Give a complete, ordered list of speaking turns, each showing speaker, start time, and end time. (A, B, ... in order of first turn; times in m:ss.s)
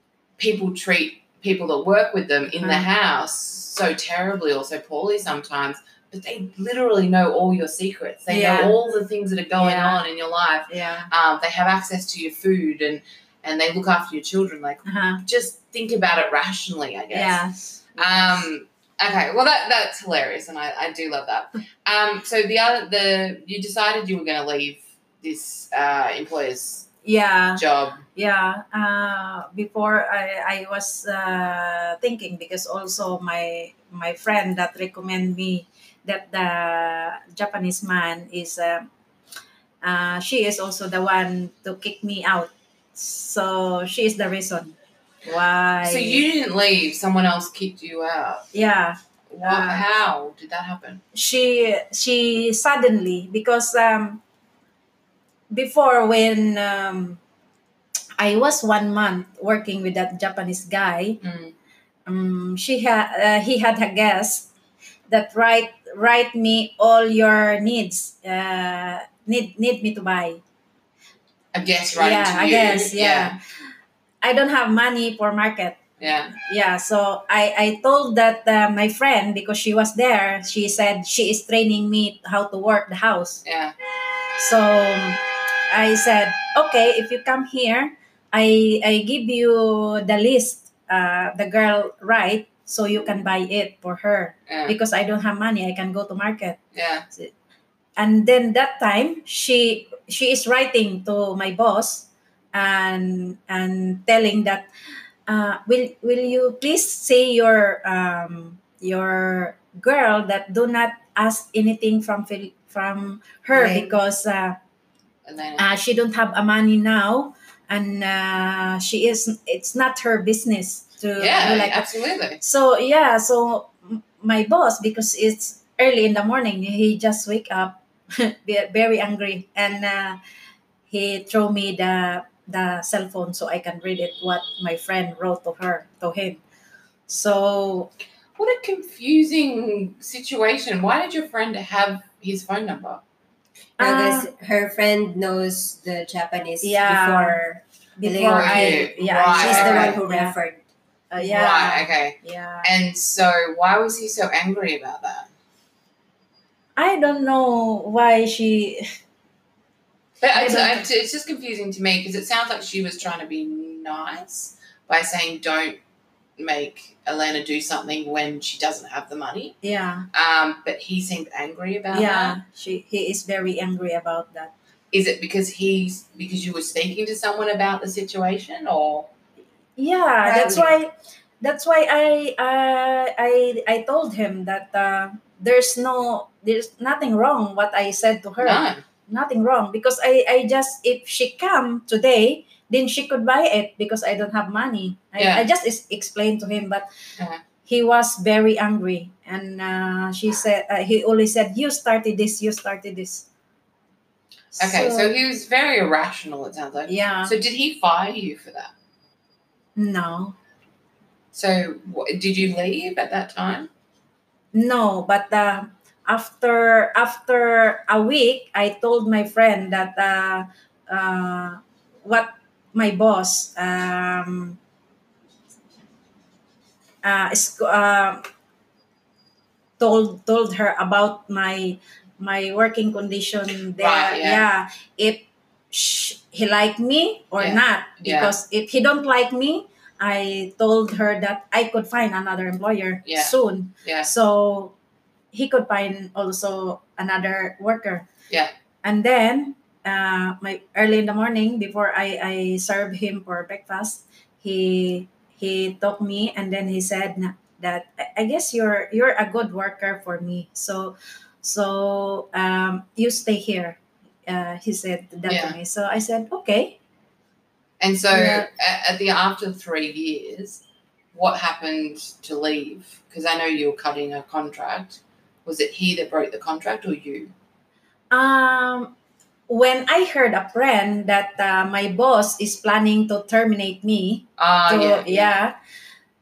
0:00.4-0:17.4 A
0:02.6-0:02.9 B
0:08.3-0:08.8 B
0:09.6-0:10.0 B
0:10.7-0:11.1 B
0:14.8-0:15.2 B
0:17.1-0:18.5 B
0:18.0-0:26.9 A
0:27.0-0:27.6 B
0:27.6-0:28.0 A
0:28.2-0:38.9 B
0:39.8-0:46.2 B
0:45.8-0:48.5 A
0:48.5-0:49.8 B
0:49.3-0:51.0 A
0:51.1-0:54.2 B
0:55.5-0:57.2 B
0:58.2-1:01.2 B
1:01.2-1:01.5 A
1:02.1-1:04.5 B
1:05.1-1:10.4 B
1:11.5-1:13.4 A
1:12.0-1:13.4 B
1:14.2-1:15.8 B
1:16.0-1:16.3 A
1:16.3-1:23.4 B
1:23.4-1:23.8 A
1:24.4-1:36.6 B
1:34.5-1:34.8 A
1:36.8-1:37.1 A
1:38.0-1:44.7 B
1:45.3-1:54.6 B
1:53.6-1:53.9 C
1:55.3-1:55.6 A
1:55.6-2:01.9 B
2:01.2-2:02.4 A
2:02.4-2:10.2 B
2:10.9-2:16.4 B
2:17.1-2:17.9 B
2:18.4-2:23.0 A
2:23.8-2:24.3 B
2:23.8-2:27.4 C
2:26.6-2:30.4 B
2:28.0-2:30.6 C
2:28.2-2:30.0 A
2:31.1-2:32.7 B
2:31.2-2:35.3 A
2:36.8-2:38.9 B
2:40.2-2:45.8 A
2:40.3-2:40.8 B
2:46.4-2:49.6 A
2:49.6-2:50.1 B
2:50.1-2:52.4 A
2:51.9-2:54.5 B
2:54.9-2:59.1 A
2:59.8-3:16.9 B
3:00.2-3:00.8 C
3:08.4-3:08.8 A
3:15.2-3:15.5 A
3:17.7-3:23.3 B
3:24.6-3:25.2 B
3:24.6-3:28.7 A
3:26.9-3:27.3 B
3:29.8-3:30.4 B
3:31.3-3:33.7 A
3:34.5-3:44.6 B
3:47.0-3:48.2 B
3:49.8-4:04.8 B
3:53.8-3:54.4 A
3:57.4-3:58.3 A
4:03.1-4:04.1 A
4:05.3-4:08.1 B
4:08.8-4:26.8 B
4:25.3-4:25.6 A
4:27.8-4:30.6 A
4:28.1-4:28.5 B
4:31.1-4:37.3 A
4:38.1-4:39.0 B
4:39.5-4:45.6 B
4:44.4-4:45.4 A